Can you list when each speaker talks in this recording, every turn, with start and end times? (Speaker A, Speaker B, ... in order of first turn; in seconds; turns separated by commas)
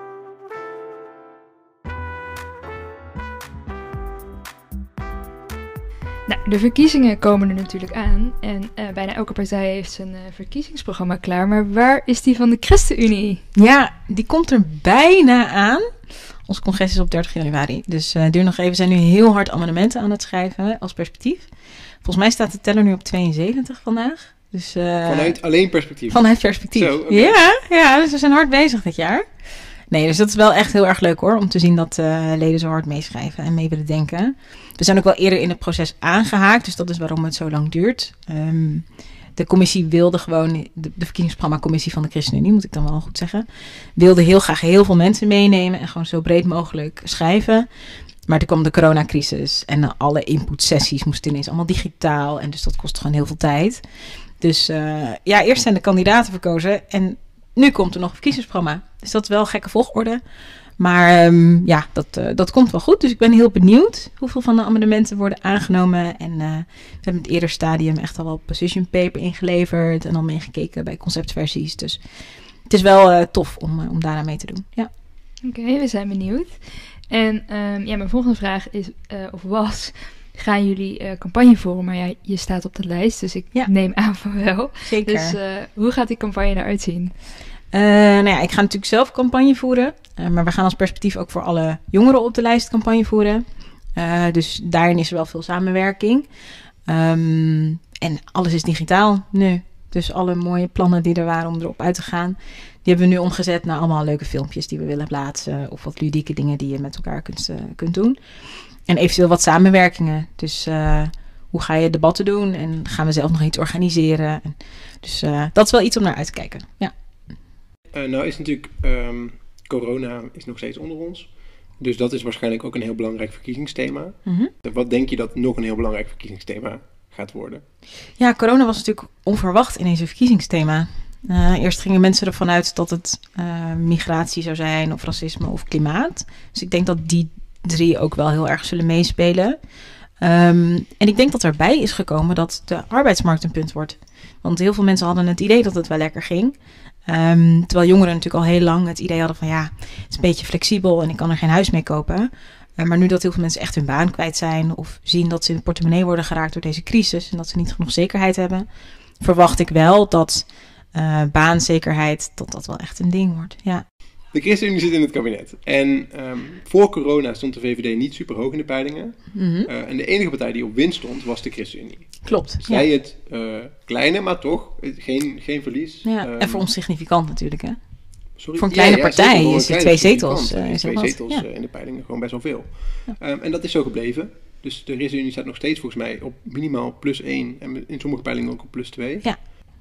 Speaker A: 6.3-13.4, Speaker B: 13.5-15.9, Speaker B: 16.4-21.5, Speaker B: 22.0-25.4, Speaker C: 25.1-27.4, Speaker B: 26.1-29.2, Speaker B: 29.9-38.9, Speaker B: 39.4-47.7, Speaker B: 48.3-53.8, Speaker B: 54.4-60.2, Speaker B: 60.8-72.0, Speaker B: 72.7-74.9, Speaker A: 75.4-87.1, Speaker B: 84.8-85.4, Speaker B: 87.7-96.3, Speaker B: 96.9-108.2, Speaker B: 108.9-116.9, Speaker C: 117.9-127.6, Speaker B: 128.2-139.6, Speaker B: 140.2-158.7, Speaker B: 159.2-163.8, Speaker C: 164.3-176.7, Speaker B: 169.3-169.7, Speaker B: 172.2-172.9, Speaker B: 176.0-177.8, Speaker C: 178.4-189.4, Speaker B: 178.6-181.4